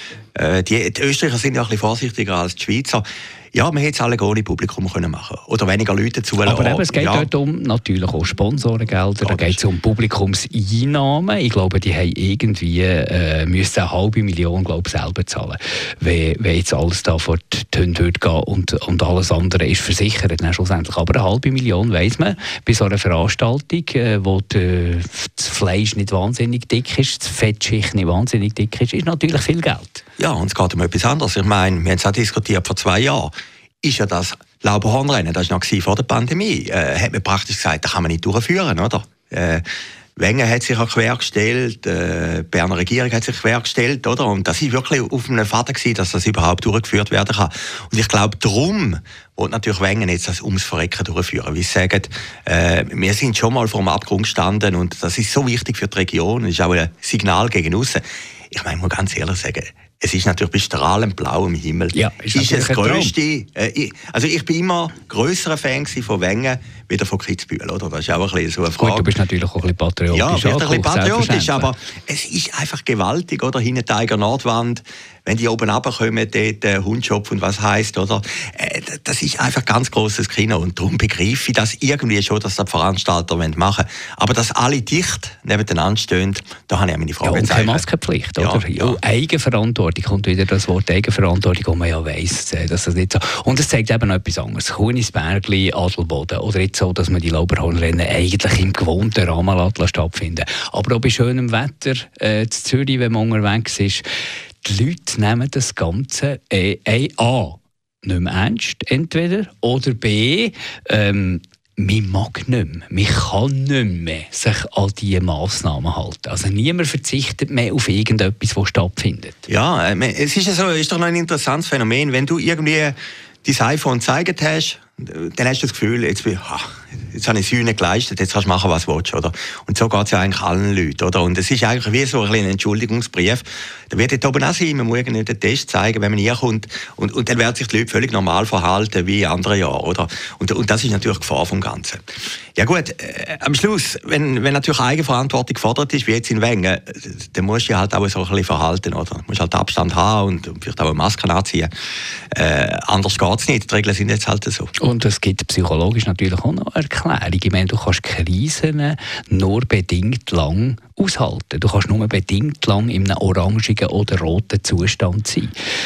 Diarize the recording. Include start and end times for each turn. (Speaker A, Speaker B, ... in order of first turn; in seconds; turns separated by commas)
Speaker A: 0.3-7.3, Speaker B: 6.4-30.0, Speaker A: 9.2-9.6, Speaker A: 30.2-39.6, Speaker A: 40.2-69.1, Speaker B: 61.9-63.1, Speaker B: 68.8-71.7, Speaker A: 70.1-87.8, Speaker B: 87.2-104.0, Speaker A: 88.4-89.0, Speaker B: 104.6-119.5, Speaker A: 119.5-151.7, Speaker A: 152.3-154.7, Speaker B: 154.8-165.5